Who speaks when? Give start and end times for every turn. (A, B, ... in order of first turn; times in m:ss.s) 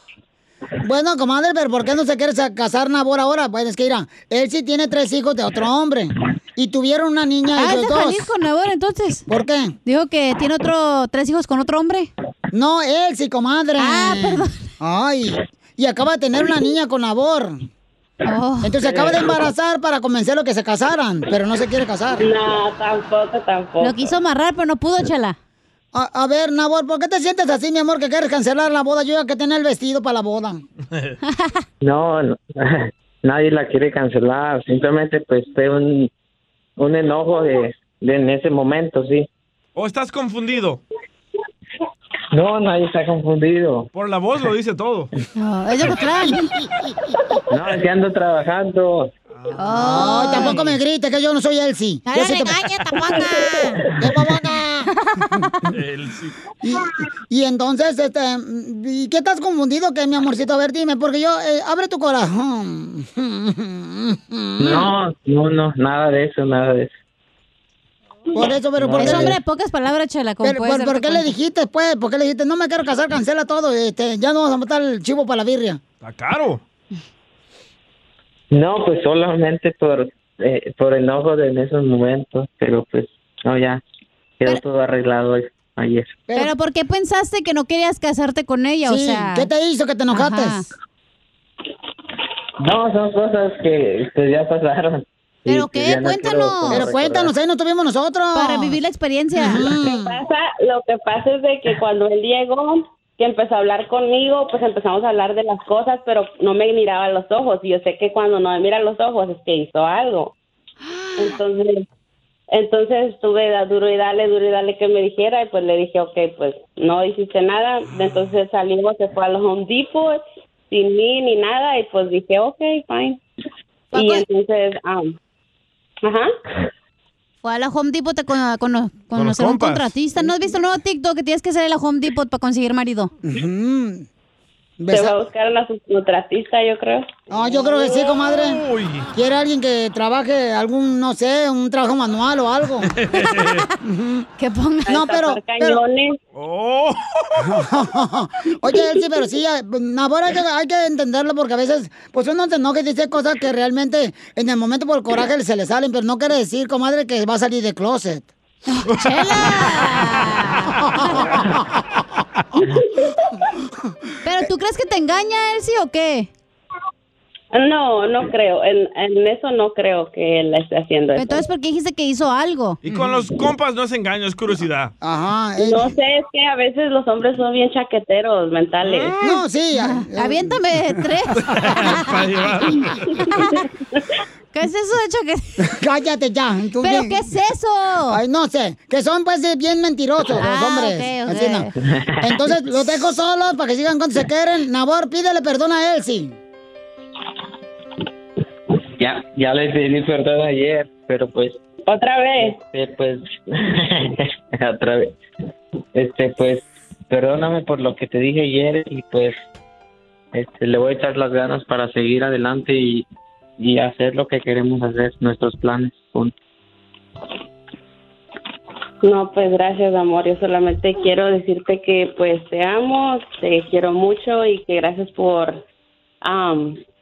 0:00.8-0:08.3 A
0:07.6-0:09.2 B
0:09.3-0:09.7 A
0:09.8-0:12.1 B
0:12.5-0:17.6 A
0:13.8-0:14.6 B
0:18.2-0:18.8 B
0:18.6-0:22.3 A
0:22.2-0:24.2 C
0:23.8-0:25.4 B
0:25.9-0:30.6 A
0:31.3-0:31.6 B
0:31.8-0:36.1 D
0:36.8-0:39.3 D
0:39.7-0:40.8 E
0:42.3-0:43.9 D
0:43.9-0:45.1 E
0:45.4-0:46.5 B
0:47.5-0:49.1 D
0:49.3-0:50.6 E
0:49.6-0:50.6 B
0:49.8-0:52.7 A
0:52.1-0:53.8 B
0:54.0-0:55.5 A
0:55.0-0:55.3 B
0:55.7-0:56.4 E
0:56.6-1:04.9 A
1:04.6-1:06.9 D
1:08.3-1:09.4 A
1:08.8-1:09.4 D
1:08.9-1:11.3 B
1:10.4-1:15.8 A
1:16.0-1:16.6 E
1:18.5-1:23.8 D
1:24.4-1:26.2 D
1:26.3-1:29.5 B
1:28.8-1:30.7 A
1:30.1-1:30.7 B
1:32.6-1:37.3 D
1:35.5-1:36.9 B
1:36.7-1:38.8 A
1:38.3-1:39.8 B
1:39.3-1:40.2 A
1:39.8-1:50.3 C
1:50.9-1:51.4 B
1:51.2-1:51.8 C
1:52.5-2:03.2 C
2:03.9-2:04.2 B
2:03.9-2:05.1 C
2:06.0-2:06.3 C
2:07.4-2:13.1 B
2:09.1-2:09.9 E
2:13.2-2:14.0 A
2:14.8-2:15.2 A
2:14.9-2:17.1 C
2:17.3-2:22.9 A
2:17.5-2:19.1 E
2:22.9-2:23.6 E
2:23.2-2:23.7 B
2:23.8-2:24.2 A
2:24.4-2:25.0 B
2:24.9-2:25.8 A
2:24.9-2:26.2 C
2:26.4-2:27.6 E
2:27.4-2:38.3 A
2:38.7-2:41.4 B
2:38.9-2:40.0 E
2:40.9-2:41.6 A
2:44.2-2:46.3 B
2:47.5-2:51.4 C
2:51.1-2:52.8 B
2:52.8-2:54.9 E
2:55.0-2:55.9 A
2:55.6-2:59.1 C
2:58.8-2:59.4 E
2:59.2-3:01.9 A
2:59.8-3:02.3 B
3:01.4-3:03.0 E
3:03.3-3:03.6 B
3:04.5-3:05.4 B
3:05.6-3:07.2 A
3:06.8-3:08.2 B
3:08.1-3:11.7 A
3:10.3-3:11.7 B
3:12.0-3:12.3 D
3:12.2-3:16.4 A
3:19.0-3:21.6 D
3:21.9-3:22.6 C
3:22.4-3:25.1 D
3:25.9-3:29.4 D
3:30.3-3:33.0 D
3:33.6-3:36.3 D
3:39.0-3:45.6 C
3:46.2-3:46.8 C